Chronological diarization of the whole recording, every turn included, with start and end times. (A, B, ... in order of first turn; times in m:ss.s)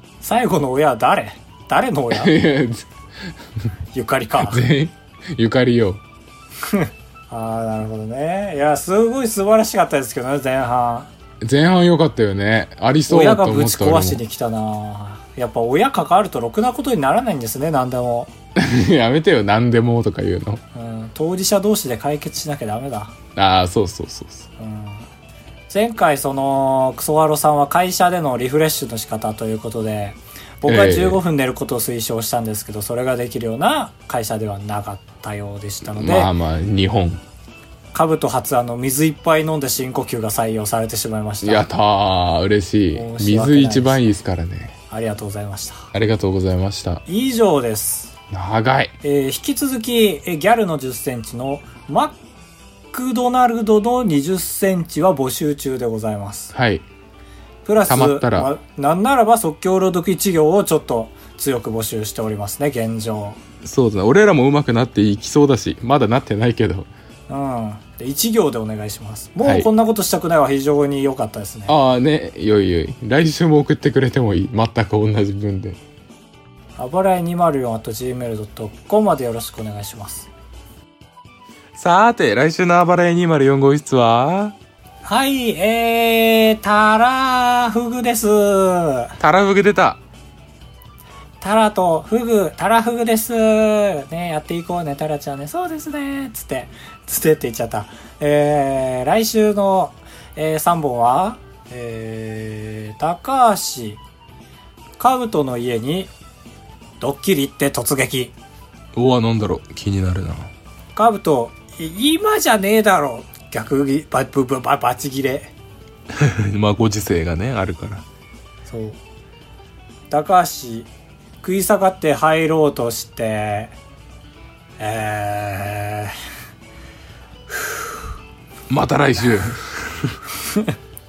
0:00.2-0:02.4 A
0:02.1-0:02.9 B
0:03.9-0:04.6 A
0:04.4-0:06.0 B
0:06.6-0:11.1 A
0:11.4-0:14.2 B
0:13.1-0:18.3 A
0:18.6-0:20.6 B
0:20.7-0:23.1 A
0:23.4-0:24.5 B
0:24.6-0:25.1 A
0:25.7-0:36.3 A
0:30.7-0:31.2 B
0:35.9-0:37.2 B
0:37.9-0:41.7 A
0:41.4-0:44.8 B
0:42.9-0:44.1 A
0:44.9-0:45.9 A
0:45.9-0:47.0 B
0:47.1-0:48.2 A
0:48.3-0:49.0 B
0:49.0-0:52.2 A
0:52.9-0:56.5 A
0:56.5-0:56.8 B
0:57.6-1:03.4 A
0:57.9-0:58.5 B
1:03.6-1:06.9 B
1:07.3-1:11.8 A
1:09.4-1:09.7 B
1:11.7-1:15.8 B
1:16.8-1:20.3 A
1:21.8-1:24.6 B
1:25.0-1:29.2 A
1:29.2-1:30.0 B
1:31.4-1:44.0 A
1:45.0-1:46.1 A
1:47.0-1:48.4 A
1:49.0-1:50.5 B
1:51.0-1:55.5 A
1:56.1-1:58.0 B
1:58.7-1:59.0 A
2:00.1-2:00.9 A
2:01.4-2:03.7 A
2:04.8-2:06.2 A
2:07.5-2:07.8 A
2:08.7-2:10.2 B
2:10.5-2:10.7 A